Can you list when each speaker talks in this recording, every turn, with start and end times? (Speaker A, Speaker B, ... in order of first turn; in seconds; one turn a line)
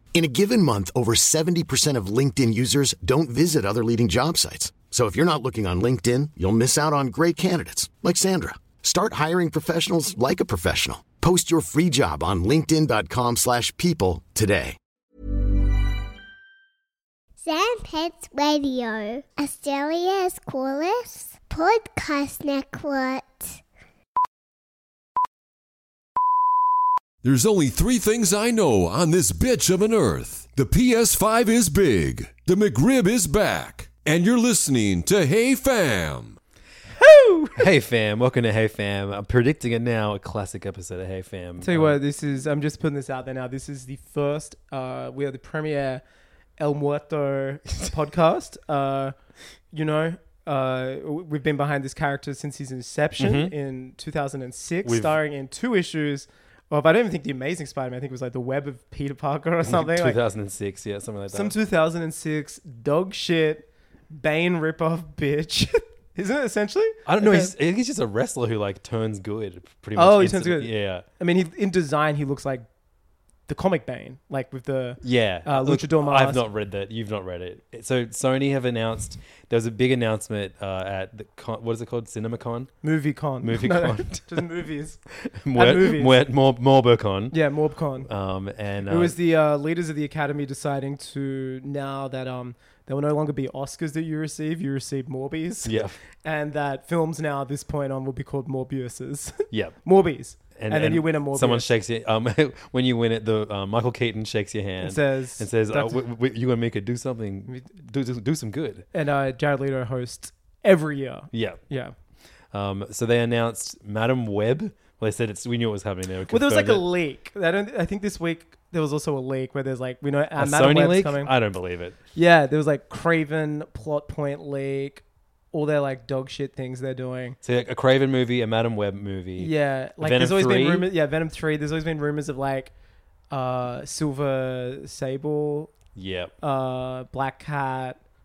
Speaker A: 0.1-14.8
Speaker B: 17.4-23.6
Speaker C: 27.2-36.4
Speaker D: 37.0-37.6
Speaker E: 37.6-42.0
Speaker D: 41.6-46.0
Speaker D: 46.6-49.1
Speaker D: 49.7-60.2
Speaker E: 53.2-53.5
Speaker E: 54.8-55.2
Speaker E: 59.6-61.5
Speaker D: 61.3-67.5
Speaker E: 67.0-71.0
Speaker D: 70.0-72.7
Speaker D: 73.5-76.4
Speaker E: 75.0-82.7
Speaker D: 82.8-85.0
Speaker E: 83.4-84.5
Speaker E: 85.2-87.4
Speaker D: 85.5-86.2
Speaker D: 87.3-88.1
Speaker E: 88.0-89.2
Speaker D: 88.9-101.7
Speaker E: 95.6-96.0
Speaker E: 99.5-99.8
Speaker E: 100.5-108.8
Speaker D: 104.8-106.0
Speaker D: 108.9-111.9
Speaker E: 111.3-111.6
Speaker E: 112.5-116.8
Speaker D: 116.3-121.3
Speaker E: 120.3-122.0
Speaker D: 122.1-127.4
Speaker E: 127.4-130.9
Speaker D: 129.4-132.7
Speaker D: 133.3-135.7
Speaker E: 135.9-136.3
Speaker D: 136.4-138.0